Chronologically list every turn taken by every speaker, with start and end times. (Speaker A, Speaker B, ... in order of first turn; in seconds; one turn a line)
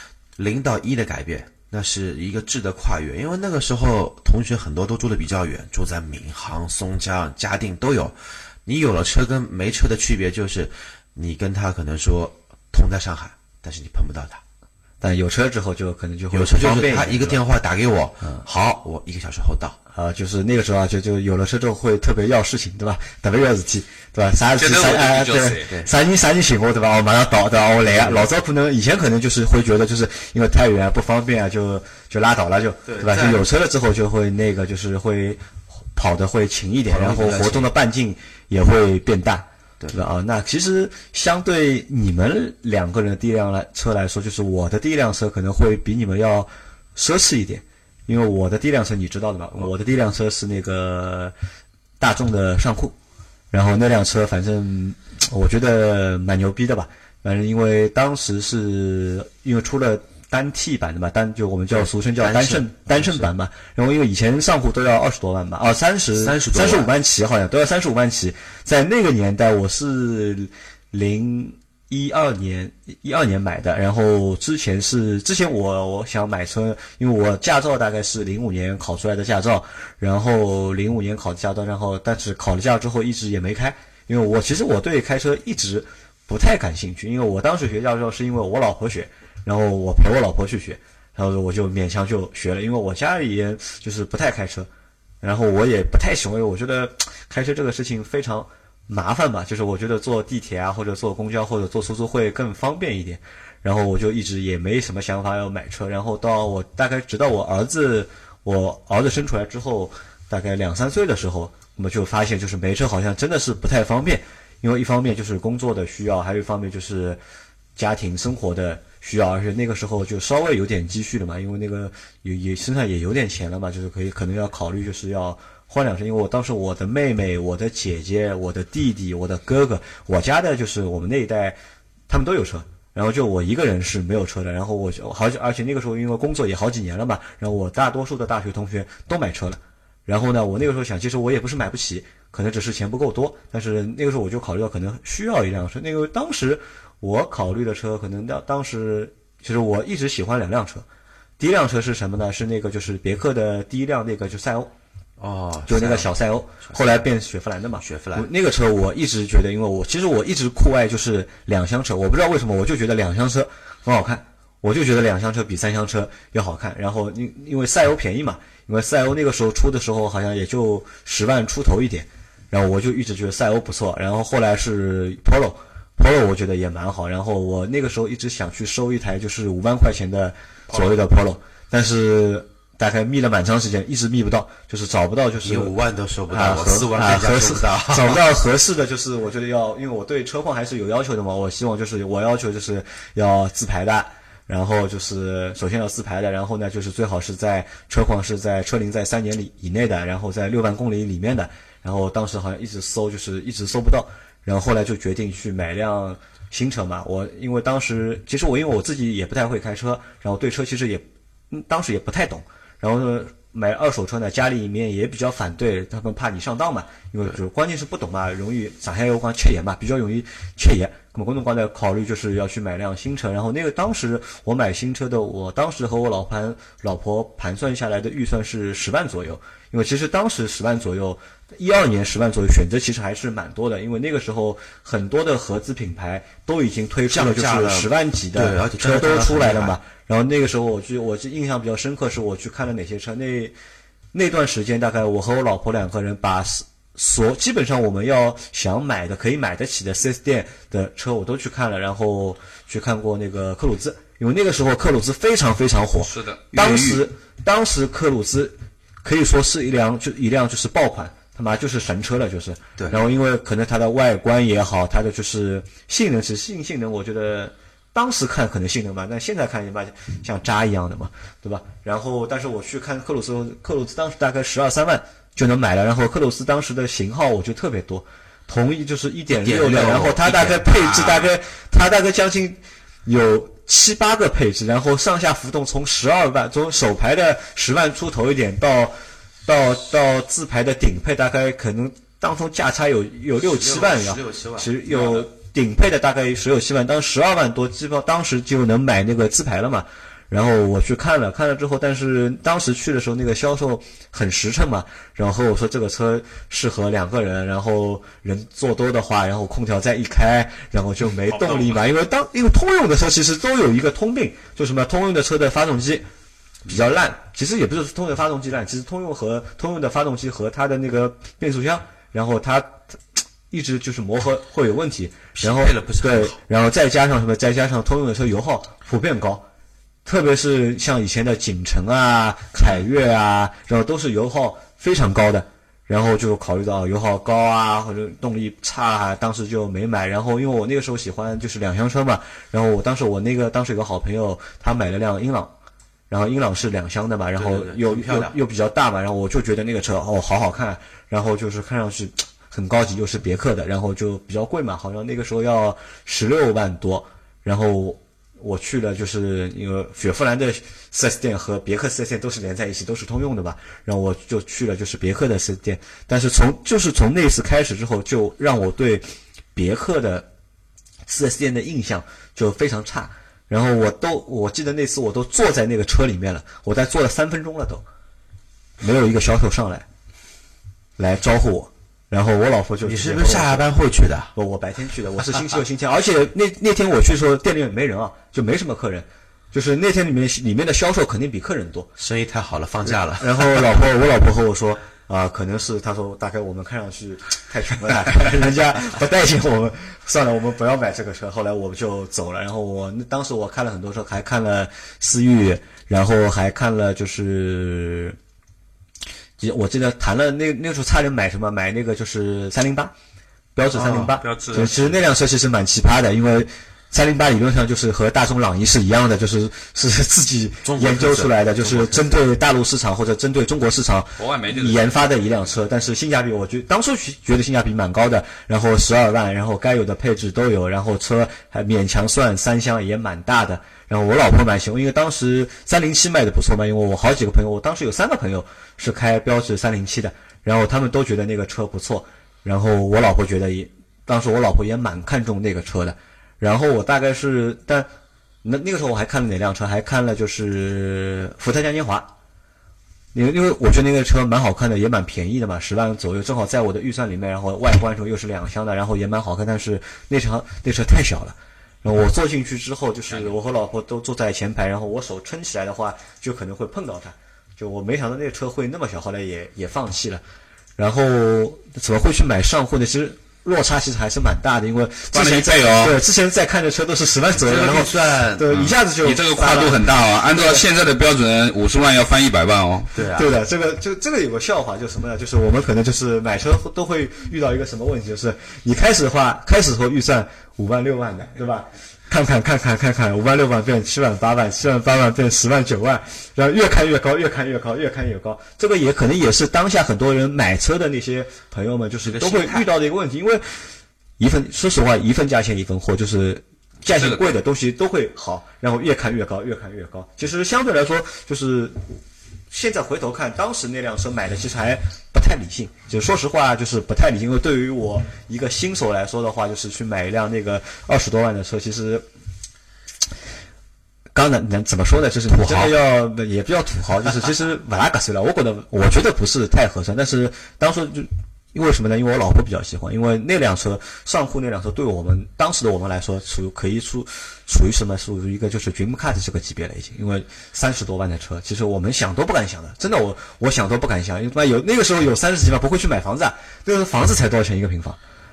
Speaker A: 0.4-14.4
Speaker B: 15.0-17.4
Speaker A: 16.3-19.8
Speaker B: 19.9-35.4
Speaker C: 24.6-25.7
Speaker A: 32.9-33.5
Speaker B: 35.9-51.3
Speaker A: 36.9-37.7
Speaker B: 52.0-52.9
Speaker B: 53.5-94.7
Speaker A: 61.7-63.3
Speaker A: 66.1-66.9
Speaker B: 95.2-117.2
Speaker B: 117.8-131.5
Speaker B: 132.1-150.8
Speaker B: 151.4-154.7
Speaker A: 155.2-157.0
Speaker B: 155.7-185.7
Speaker A: 157.8-158.3
Speaker A: 180.7-181.0
Speaker A: 185.4-188.2
Speaker B: 186.3-243.5
Speaker A: 237.1-239.8
Speaker B: 244.1-288.9
Speaker C: 256.1-256.9
Speaker A: 279.4-281.3
Speaker B: 289.4-316.0
Speaker A: 293.4-295.2
Speaker C: 311.3-311.9
Speaker B: 316.6-323.0
Speaker B: 323.5-329.4
Speaker A: 325.3-326.4
Speaker B: 330.0-345.5
Speaker B: 346.1-370.2
Speaker A: 347.3-348.3
Speaker B: 371.1-377.8
Speaker B: 378.8-379.8
Speaker B: 381.0-383.7
Speaker A: 382.8-384.3
Speaker B: 384.3-391.9
Speaker A: 392.0-393.7
Speaker B: 392.9-408.2
Speaker B: 409.4-412.9
Speaker B: 413.5-447.9
Speaker C: 413.8-415.0
Speaker A: 420.6-422.2
Speaker C: 424.2-425.4
Speaker B: 448.4-452.1
Speaker B: 453.1-470.2
Speaker B: 470.8-480.7
Speaker C: 475.1-476.0
Speaker A: 477.3-478.5
Speaker C: 478.5-482.9
Speaker A: 482.9-483.3
Speaker B: 483.1-503.6
Speaker A: 502.0-502.7
Speaker B: 504.2-511.9
Speaker C: 506.9-507.3
Speaker B: 512.5-522.0
Speaker B: 524.1-548.0
Speaker A: 525.3-525.7